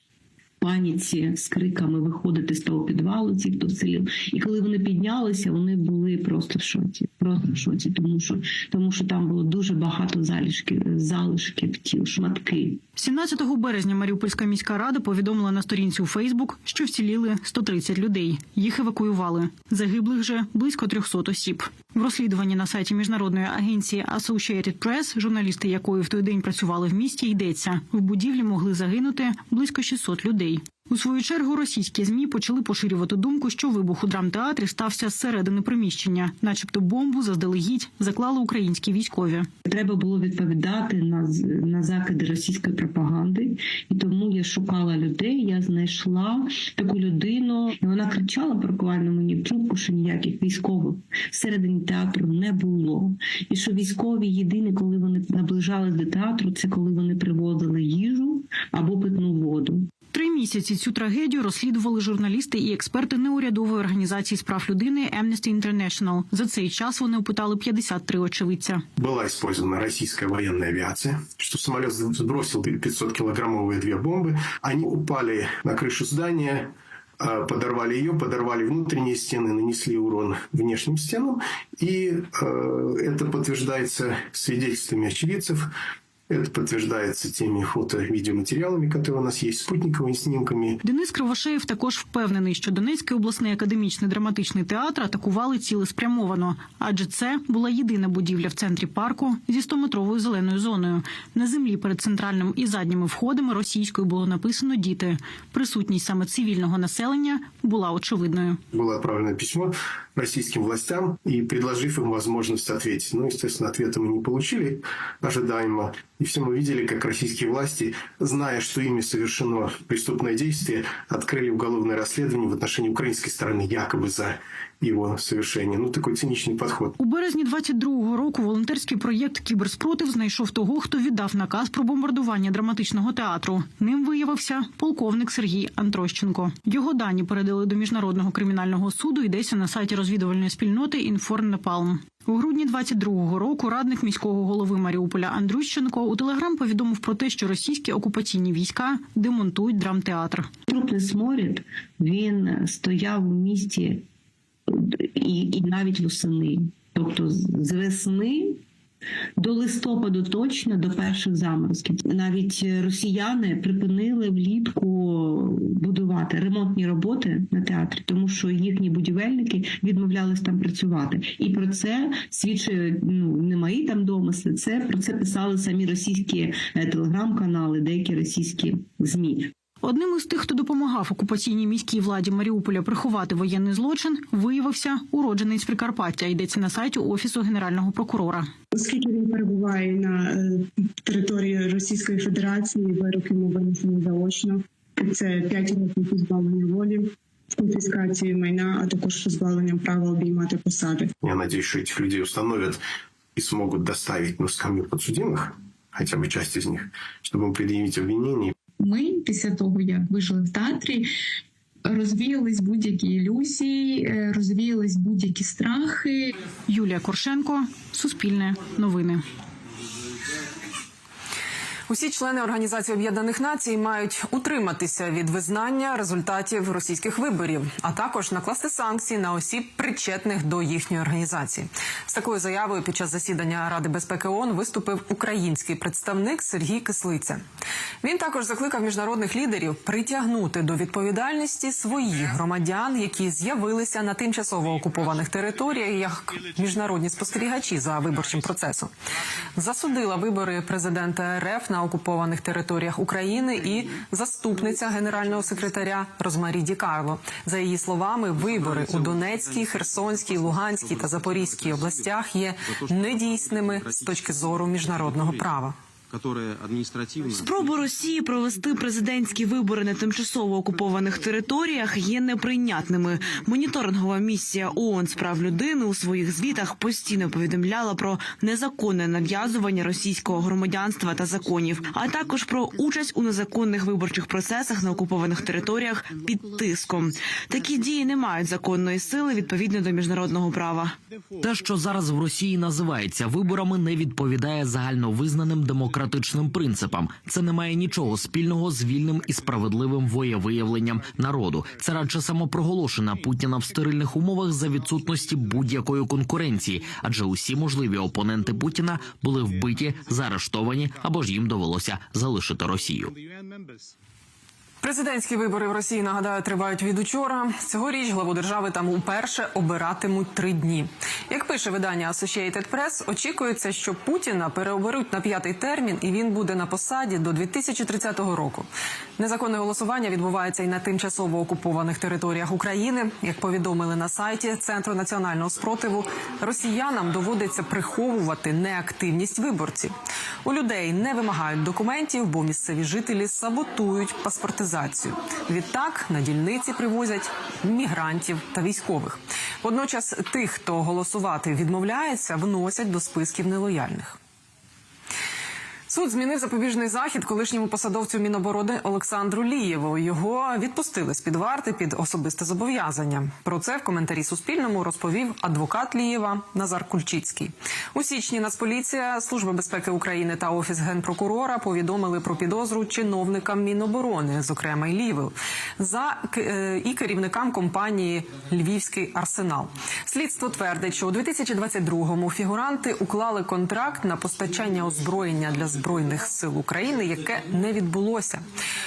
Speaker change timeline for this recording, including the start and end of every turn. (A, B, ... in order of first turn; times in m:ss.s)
0:00.6-0:12.8 A
0:13.0-0:39.5 B
0:39.7-0:59.9 A
1:00.1-1:08.8 B
1:09.0-1:25.7 C
1:26.3-1:30.8 C
1:30.8-1:48.6 B
1:48.7-2:07.0 C
2:07.0-2:30.5 B
2:30.7-2:34.0 A
2:34.7-2:38.6 A
2:39.4-2:59.5 A
2:59.8-3:08.5 B
3:08.8-3:10.3 D
3:11.1-3:21.1 D
3:21.2-3:22.8 C
3:23.4-3:28.6 C
3:28.8-3:31.0 E
3:31.9-3:36.2 E
3:36.7-3:39.2 B
3:41.9-3:57.4 F
3:58.0-4:08.9 F
4:09.6-4:25.8 F
4:18.4-4:22.1 G
4:22.8-4:25.4 G
4:26.1-4:27.4 G
4:27.3-4:51.0 H
4:51.4-5:13.1 I
4:55.9-4:57.0 G
4:57.6-5:02.5 G
5:03.2-5:04.1 G
5:04.7-5:07.4 G
5:08.0-5:08.9 G
5:09.5-5:10.8 G
5:14.8-5:28.7 F
5:29.2-5:39.9 F
5:40.4-5:54.2 F
5:55.9-6:28.4 F